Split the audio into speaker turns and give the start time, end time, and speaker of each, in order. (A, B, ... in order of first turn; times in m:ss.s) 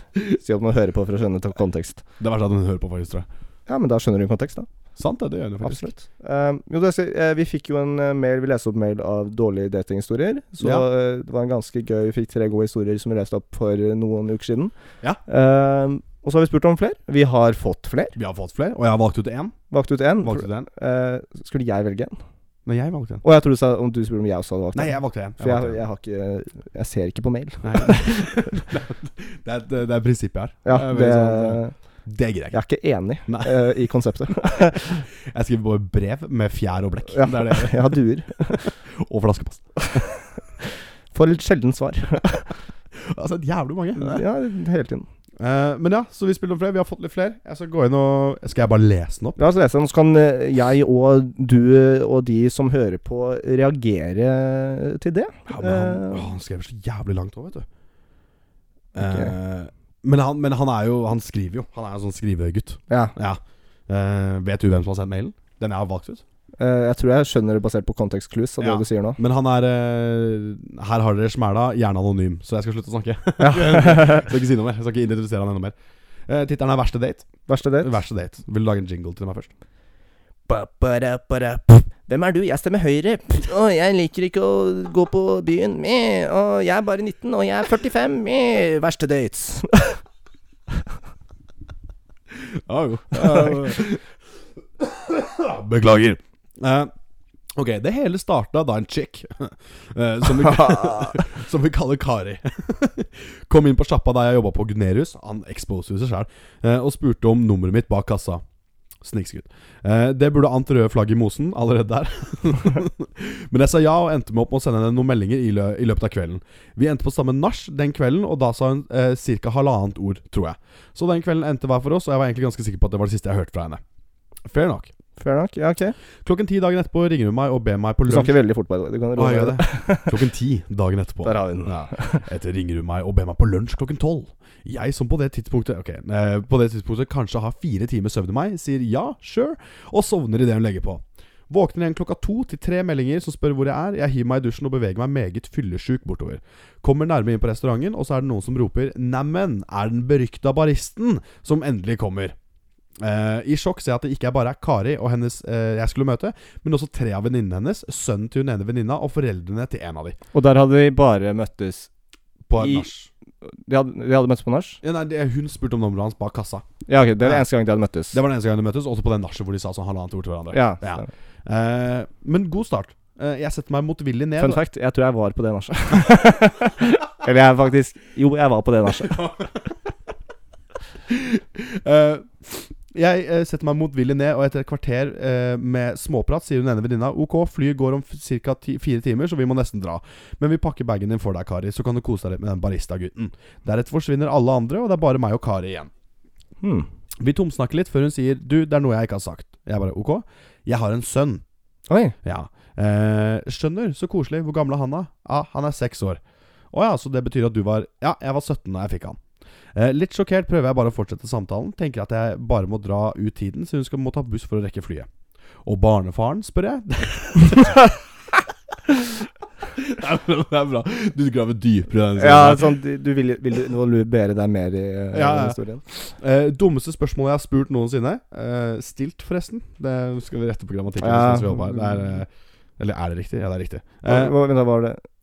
0:00.4-0:02.0 A
0:02.2-0:03.3 B
0:03.7-0:04.7 A
0:05.0-0:05.9 B
0:05.6-0:14.7 A
0:10.6-0:10.8 B
0:15.2-0:18.2 A
0:18.2-0:19.6 B
0:19.7-0:22.2 A
0:20.2-0:20.7 B
0:22.6-0:23.2 B
0:23.2-0:28.1 A
0:24.7-0:25.8 B
0:27.6-0:32.6 B
0:30.6-0:31.7 A
0:32.5-0:35.0 A
0:33.2-0:33.8 B
0:35.2-0:40.1 B
0:37.1-0:38.7 A
0:41.1-0:42.5 A
0:42.9-0:44.2 B
0:44.0-0:45.1 A
0:45.4-0:49.5 B
0:49.4-0:56.3 A
0:55.5-0:57.6 B
0:58.9-1:06.2 B
0:59.0-0:59.3 A
1:02.9-1:03.1 A
1:06.6-1:09.2 A
1:08.6-1:15.7 B
1:13.4-1:14.2 A
1:16.3-1:19.5 B
1:17.5-1:17.9 A
1:20.5-1:30.0 A
1:32.3-1:34.1 B
1:33.1-1:33.7 A
1:34.8-1:36.9 B
1:37.6-1:48.4 B
1:40.3-1:41.2 A
1:49.0-2:03.8 B
2:04.4-2:04.9 B
2:05.2-2:06.0 A
2:06.2-2:08.3 B
2:08.0-2:10.2 A
2:09.2-2:32.3 B
2:11.2-2:12.2 A
2:33.0-2:40.2 B
2:40.3-2:41.9 A
2:42.5-2:43.1 B
2:42.6-2:42.9 A
2:43.4-2:44.8 A
2:44.8-2:46.6 B
2:46.9-2:48.2 A
2:48.1-2:54.6 B
2:50.5-2:51.1 A
2:54.4-2:59.2 A
2:59.2-2:59.4 B
3:01.1-3:15.9 B
3:16.6-3:16.9 A
3:17.2-3:21.4 B
3:21.9-3:22.2 A
3:22.2-3:29.2 B
3:29.7-3:35.1 B
3:35.6-3:37.9 B
3:39.7-3:42.8 B
3:42.2-3:45.8 A
3:45.1-3:54.4 B
3:51.0-3:52.0 A
3:54.0-3:55.0 A